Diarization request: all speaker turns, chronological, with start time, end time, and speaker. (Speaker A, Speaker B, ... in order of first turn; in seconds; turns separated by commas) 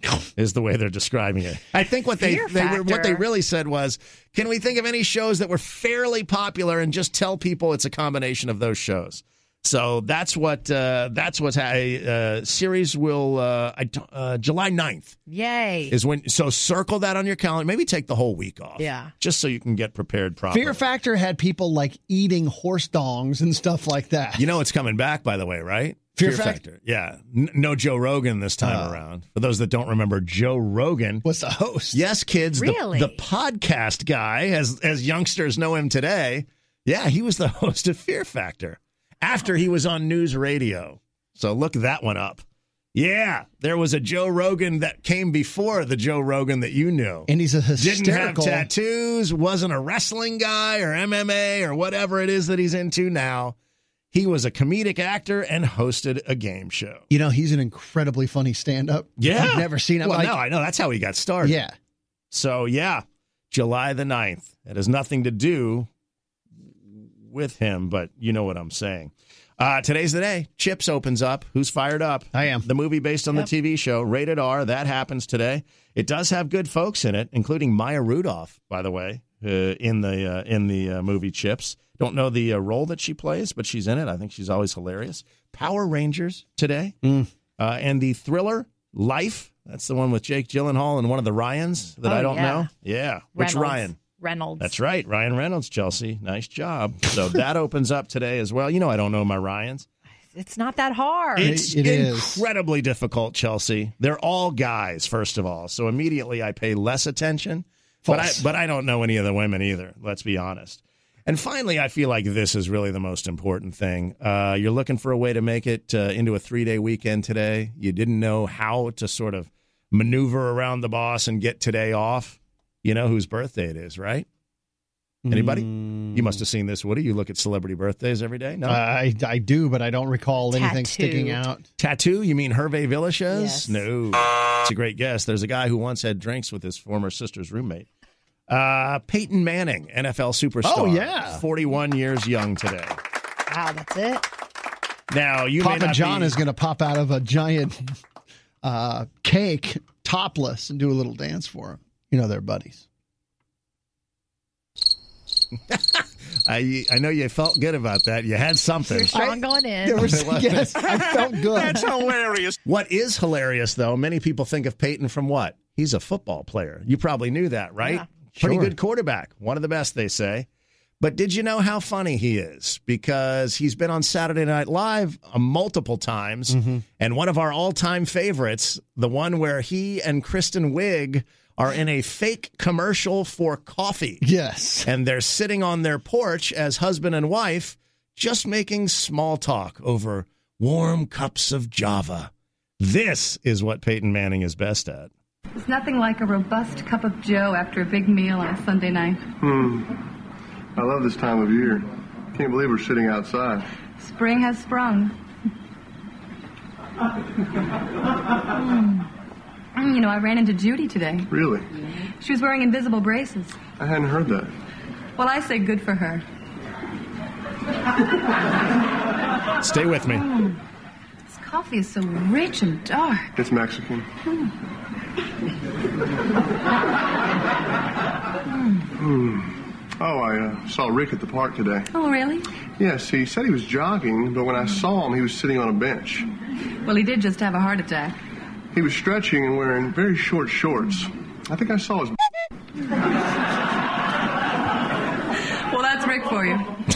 Speaker A: 0.4-15.2, Speaker B: 2.2-3.2, Speaker B: 15.3-15.9, Speaker A: 15.9-20.8, Speaker B: 18.8-19.1, Speaker C: 20.5-24.5, Speaker A: 24.4-31.2, Speaker C: 26.2-26.6, Speaker C: 28.6-29.0, Speaker C: 31.2-32.0, Speaker A: 31.9-42.4, Speaker B: 32.5-33.2, Speaker A: 42.9-53.5, Speaker C: 47.3-48.7, Speaker A: 54.1-57.0, Speaker C: 57.1-60.4, Speaker A: 59.2-61.6, Speaker C: 61.4-61.7, Speaker A: 62.3-65.9, Speaker A: 66.9-87.0, Speaker C: 72.3-72.7, Speaker A: 87.6-94.0, Speaker B: 92.0-92.7, Speaker B: 93.3-94.7, Speaker A: 94.6-99.8, Speaker B: 100.3-101.6, Speaker C: 101.4-102.5, Speaker A: 101.4-124.2, Speaker C: 108.0-108.4, Speaker C: 125.2-126.4, Speaker A: 125.3-128.8, Speaker C: 128.6-131.6, Speaker B: 130.4-131.4, Speaker A: 131.8-137.9, Speaker B: 133.3-133.8, Speaker A: 138.5-143.0, Speaker C: 140.6-141.4, Speaker B: 143.5-144.3, Speaker A: 145.1-146.4, Speaker C: 145.6-147.9, Speaker C: 148.6-152.8, Speaker A: 155.7-159.1, Speaker B: 158.9-160.2, Speaker C: 159.1-161.9, Speaker A: 160.1-160.8, Speaker A: 162.6-170.4, Speaker C: 168.4-168.7, Speaker A: 171.0-184.2, Speaker C: 176.5-176.8, Speaker C: 184.2-184.9, Speaker A: 184.8-195.1, Speaker D: 195.6-199.2, Speaker E: 199.4-199.9, Speaker E: 200.8-203.6, Speaker D: 204.0-205.1, Speaker D: 209.8-211.3, Speaker E: 211.3-211.7, Speaker D: 212.2-213.5, Speaker E: 213.8-214.5, Speaker D: 215.2-216.2, Speaker A: 219.6-220.3, Speaker D: 221.3-223.3, Speaker E: 223.4-224.1, Speaker E: 229.0-231.9, Speaker D: 231.9-232.4, Speaker E: 232.8-236.2, Speaker D: 236.8-238.2, Speaker E: 238.7-242.2, Speaker D: 245.7-246.7